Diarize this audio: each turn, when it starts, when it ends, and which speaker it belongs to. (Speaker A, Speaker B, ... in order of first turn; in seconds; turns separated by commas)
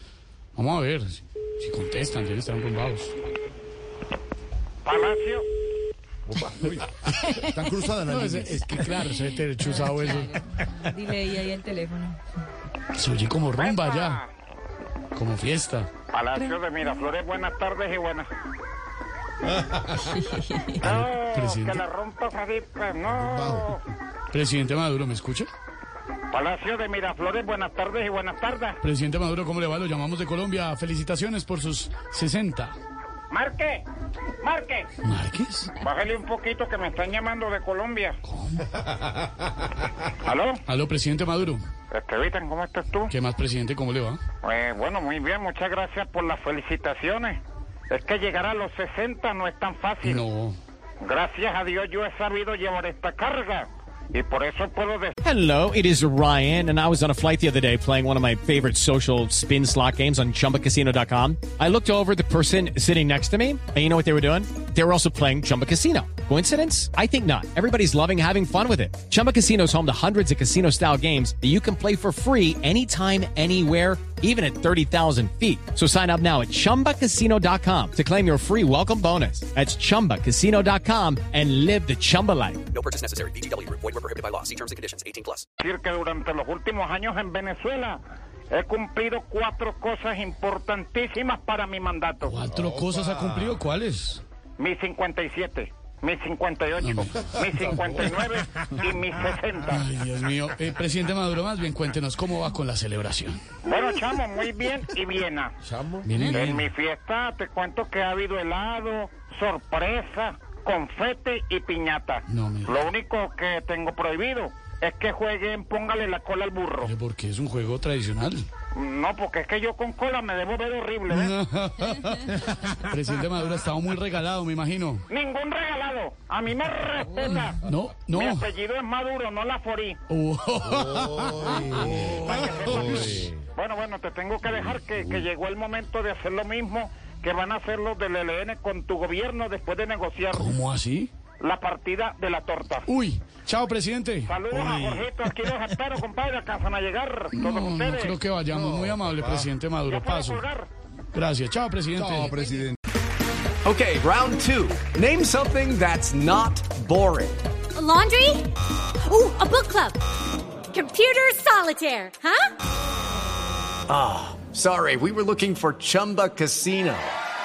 Speaker A: 0.5-3.1, Speaker B: 4.8-5.5, Speaker C: 6.3-9.0, Speaker A: 8.1-10.4, Speaker D: 9.8-12.2, Speaker A: 12.9-14.2, Speaker B: 13.5-14.3, Speaker A: 15.1-15.9, Speaker B: 16.1-18.3, Speaker B: 20.8-23.8, Speaker A: 20.8-21.8, Speaker C: 23.1-23.7, Speaker A: 24.3-25.5, Speaker B: 26.3-28.8, Speaker A: 28.8-32.8, Speaker B: 33.3-33.9, Speaker B: 34.4-34.9, Speaker A: 35.0-35.7, Speaker B: 35.8-38.2, Speaker A: 38.2-38.8, Speaker B: 40.2-40.6, Speaker A: 40.7-41.6, Speaker B: 41.9-43.1, Speaker A: 43.1-44.2, Speaker B: 44.4-50.2, Speaker A: 50.0-50.6, Speaker B: 51.0-55.1, Speaker E: 55.2-82.6, Speaker F: 82.7-85.4, Speaker B: 85.6-88.0, Speaker B: 88.5-92.4, Speaker A: 92.2-94.2, Speaker B: 94.6-99.9, Speaker A: 96.8-97.9, Speaker A: 99.7-103.4, Speaker B: 103.6-105.5, Speaker A: 106.0-106.7, Speaker B: 106.2-116.9, Speaker A: 112.3-112.8, Speaker A: 116.8-118.5, Speaker B: 118.7-121.3, Speaker A: 121.1-125.0, Speaker B: 125.1-130.0, Speaker A: 127.6-128.5, Speaker A: 130.1-133.3, Speaker C: 130.6-133.3, Speaker B: 132.1-140.5, Speaker A: 140.3-141.1, Speaker B: 141.4-142.9, Speaker A: 142.8-144.4, Speaker B: 144.2-148.2, Speaker C: 144.6-145.0, Speaker A: 147.3-150.4, Speaker C: 148.5-149.5, Speaker B: 149.9-150.7, Speaker A: 151.1-152.3, Speaker C: 151.9-152.8, Speaker G: 153.6-157.4, Speaker H: 157.7-158.5, Speaker H: 159.0-160.0, Speaker H: 160.7-162.5, Speaker G: 163.9-167.1